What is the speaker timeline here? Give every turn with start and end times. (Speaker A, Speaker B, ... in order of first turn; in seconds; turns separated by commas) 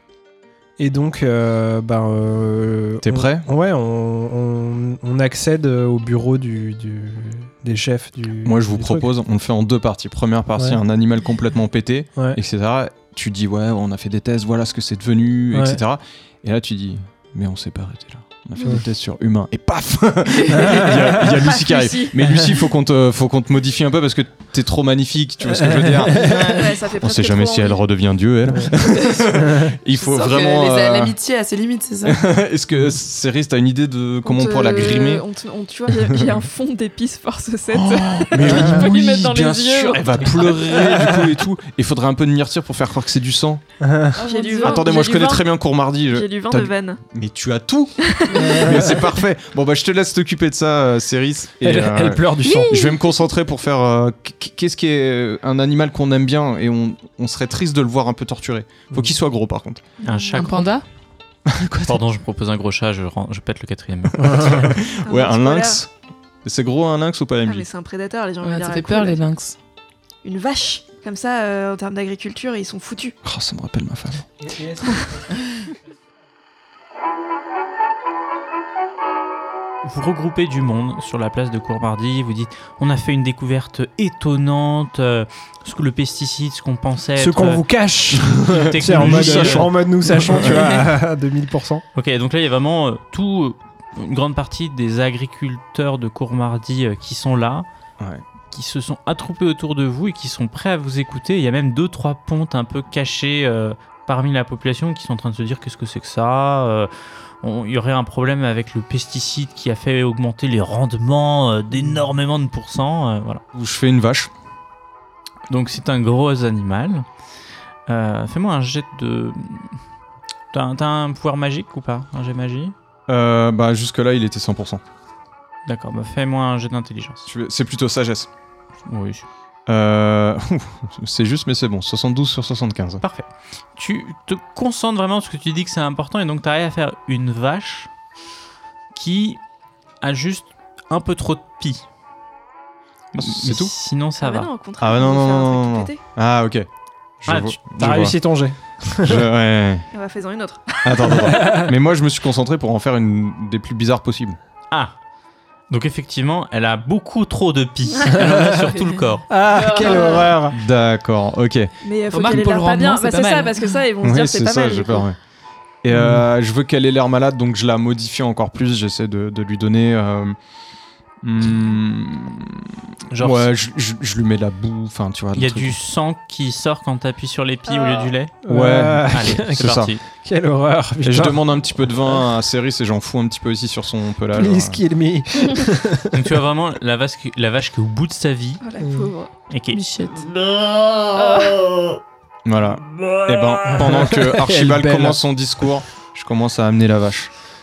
Speaker A: 0.8-9.1, Speaker B: 3.0-3.5, Speaker B: 8.4-31.1, Speaker A: 15.5-15.8, Speaker A: 20.5-21.4, Speaker C: 21.4-22.1, Speaker A: 25.4-26.6, Speaker D: 26.1-26.7, Speaker C: 26.4-27.8, Speaker A: 28.5-28.8, Speaker A: 29.3-29.7, Speaker D: 29.9-32.2, Speaker B: 32.0-35.2, Speaker C: 34.2-40.8, Speaker B: 36.0-36.3, Speaker B: 37.7-43.6, Speaker A: 38.4-38.9, Speaker A: 40.8-41.4, Speaker A: 43.8-44.2, Speaker C: 44.2-47.0, Speaker D: 44.2-44.8, Speaker B: 44.6-59.8, Speaker C: 48.0-49.0, Speaker A: 48.3-49.0, Speaker A: 51.6-52.9, Speaker D: 52.4-52.9, Speaker C: 60.0-60.5, Speaker E: 60.0-60.7, Speaker D: 60.3-60.8, Speaker B: 61.5-62.0, Speaker E: 61.8-64.6, Speaker B: 64.2-65.9, Speaker C: 65.0-65.8, Speaker B: 66.4-67.7, Speaker C: 67.4-69.2, Speaker D: 68.4-69.6, Speaker C: 70.2-73.2, Speaker B: 73.2-74.3, Speaker A: 74.4-75.1, Speaker C: 74.8-75.1, Speaker E: 79.8-87.6, Speaker A: 87.2-91.8, Speaker B: 88.3-90.6, Speaker E: 88.5-90.7, Speaker E: 91.9-97.7, Speaker E: 98.5-113.4, Speaker B: 113.5-114.3, Speaker E: 115.5-117.0, Speaker E: 117.9-119.8, Speaker E: 120.5-122.7, Speaker B: 123.1-124.8, Speaker E: 125.7-127.3, Speaker B: 127.2-128.3, Speaker E: 128.9-129.2, Speaker B: 129.7-133.0, Speaker E: 133.0-137.9, Speaker E: 138.9-139.4, Speaker E: 140.0-141.8, Speaker E: 143.1-144.5, Speaker B: 143.2-143.7, Speaker C: 144.2-146.0, Speaker B: 144.8-146.7, Speaker B: 147.2-148.2, Speaker E: 147.3-147.6, Speaker A: 147.8-149.2, Speaker B: 149.0-149.9, Speaker C: 149.9-151.3, Speaker B: 150.8-154.4, Speaker A: 151.2-151.7, Speaker E: 155.7-159.3, Speaker A: 158.2-158.6, Speaker A: 159.3-160.6, Speaker C: 159.5-160.3, Speaker D: 159.6-160.2, Speaker B: 160.5-161.7, Speaker C: 161.8-165.0, Speaker D: 162.1-163.7, Speaker B: 164.0-165.2, Speaker B: 165.8-170.3, Speaker A: 165.9-166.2, Speaker B: 171.2-175.8, Speaker E: 173.1-173.5, Speaker E: 175.3-178.4, Speaker C: 177.7-178.1, Speaker A: 178.4-182.1, Speaker B: 178.5-179.9, Speaker E: 179.1-180.0, Speaker B: 181.0-184.8, Speaker A: 184.3-186.3, Speaker E: 186.1-188.6, Speaker C: 188.6-189.3, Speaker A: 188.8-189.1, Speaker E: 189.5-189.8, Speaker D: 189.7-190.3, Speaker C: 191.1-191.7, Speaker B: 192.4-197.3, Speaker A: 193.7-195.2